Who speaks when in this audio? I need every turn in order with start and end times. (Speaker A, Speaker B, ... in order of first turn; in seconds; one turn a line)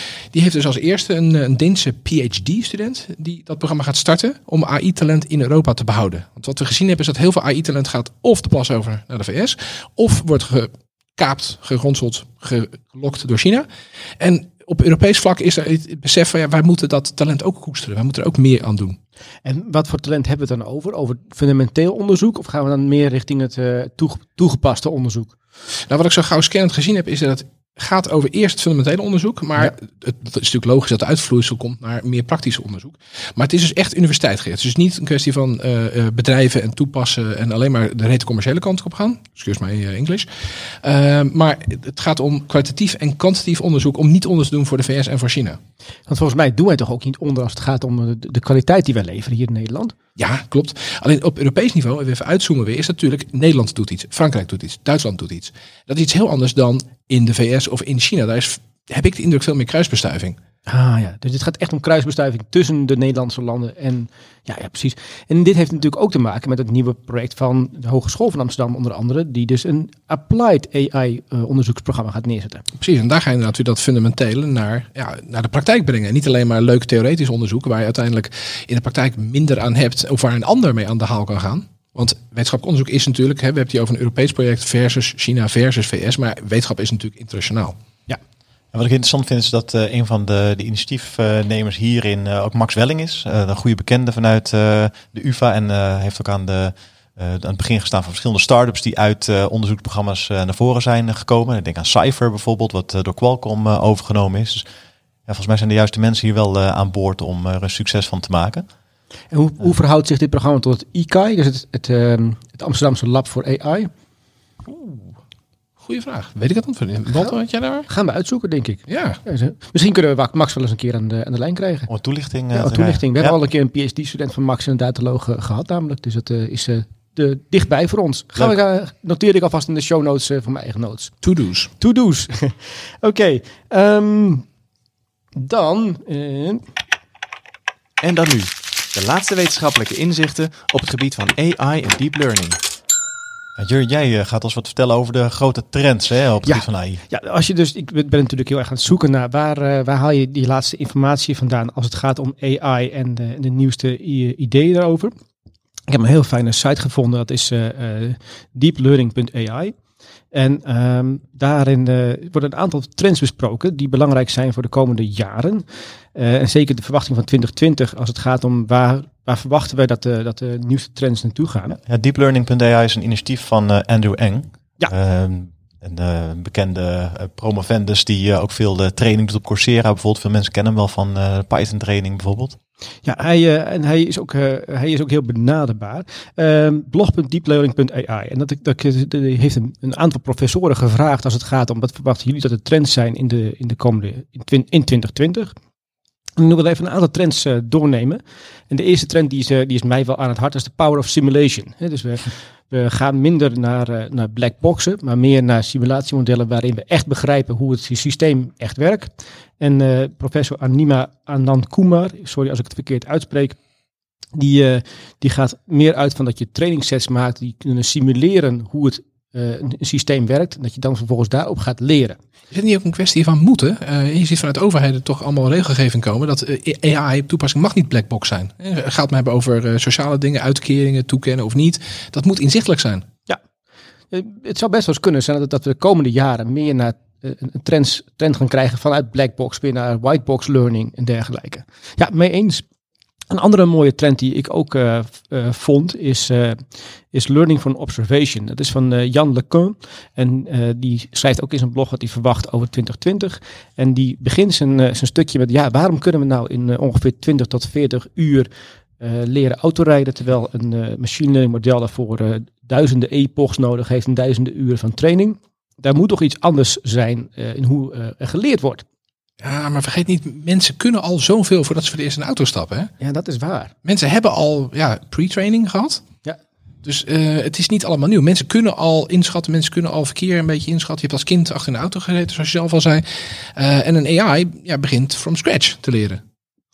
Speaker A: 0.3-13.7
Speaker A: 14.2-19.0
Speaker B: 19.4-25.3
Speaker A: 25.8-45.6
Speaker B: 46.1-50.0
Speaker A: 50.2-60.4
Speaker B: 60.7-72.6
Speaker A: 72.8-87.8
Speaker C: 88.7-104.7
Speaker C: 105.3-108.7
Speaker B: 109.3-113.9
Speaker A: 114.7-115.1
Speaker A: 115.8-117.9
Speaker B: 117.9-121.9
Speaker A: 118.9-119.2
Speaker C: 121.9-123.0
Speaker B: 122.5-131.1
Speaker A: 131.2-131.7
Speaker B: 131.8-134.5
Speaker B: 135.4-136.6
Speaker D: 138.0-142.6
Speaker C: 143.6-147.0
Speaker B: 146.4-155.2
Speaker B: 155.9-159.8
Speaker B: 160.3-171.8
Speaker C: 171.9-182.6
Speaker B: 183.1-195.5
Speaker B: 196.4-213.6
Speaker B: 214.3-222.2
Speaker A: 222.5-233.1
Speaker B: 234.1-242.7
Speaker B: 243.3-268.9
Speaker A: 269.4-272.9
Speaker B: 273.0-273.7
Speaker A: 273.9-276.0
Speaker A: 276.8-286.2